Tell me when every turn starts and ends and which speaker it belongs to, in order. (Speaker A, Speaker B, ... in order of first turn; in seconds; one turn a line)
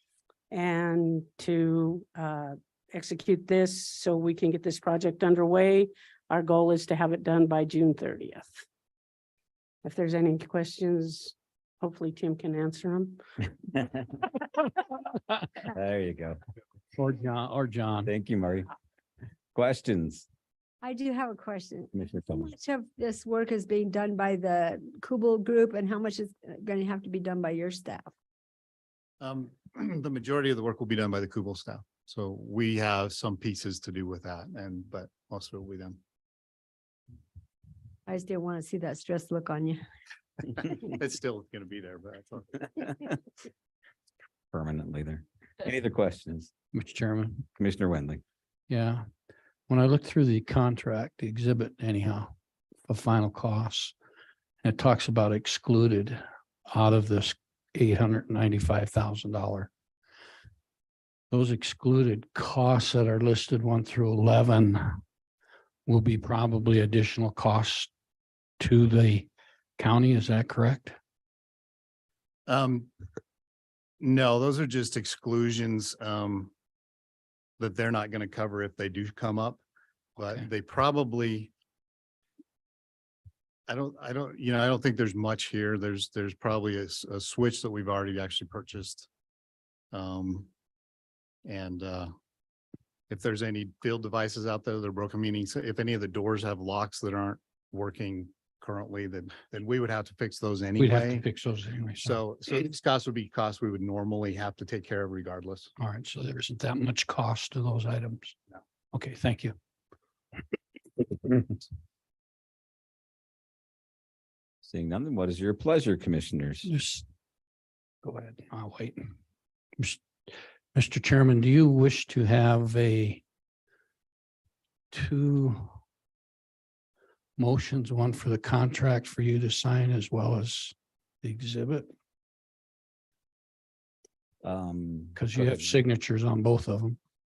Speaker A: 0.5-8.6
Speaker A: 9.8-13.2
Speaker B: 15.7-16.4
Speaker C: 17.0-18.1
Speaker B: 18.1-18.7
Speaker B: 19.5-20.3
Speaker D: 20.8-21.9
Speaker B: 21.9-22.5
Speaker D: 22.5-28.1
Speaker E: 29.2-36.0
Speaker D: 38.1-39.8
Speaker E: 40.5-42.9
Speaker B: 44.5-46.5
Speaker C: 46.7-47.5
Speaker B: 47.6-48.2
Speaker C: 48.7-49.0
Speaker C: 49.7-52.3
Speaker C: 52.9-53.9
Speaker C: 54.6-59.7
Speaker C: 61.3-65.0
Speaker C: 65.9-67.9
Speaker C: 68.6-71.0
Speaker E: 72.5-72.9
Speaker E: 74.0-76.5
Speaker E: 77.6-79.6
Speaker E: 80.2-81.5
Speaker E: 83.7-89.1
Speaker E: 89.9-90.5
Speaker E: 91.5-92.1
Speaker E: 93.1-101.2
Speaker C: 100.8-102.2
Speaker E: 102.0-105.7
Speaker C: 105.8-108.4
Speaker C: 108.9-109.5
Speaker C: 111.0-111.5
Speaker B: 114.6-116.7
Speaker C: 116.7-117.0
Speaker C: 118.0-119.0
Speaker C: 120.7-123.2
Speaker C: 124.9-125.8
Speaker C: 127.4-131.9
Speaker B: 134.4-135.8
Speaker C: 135.2-137.0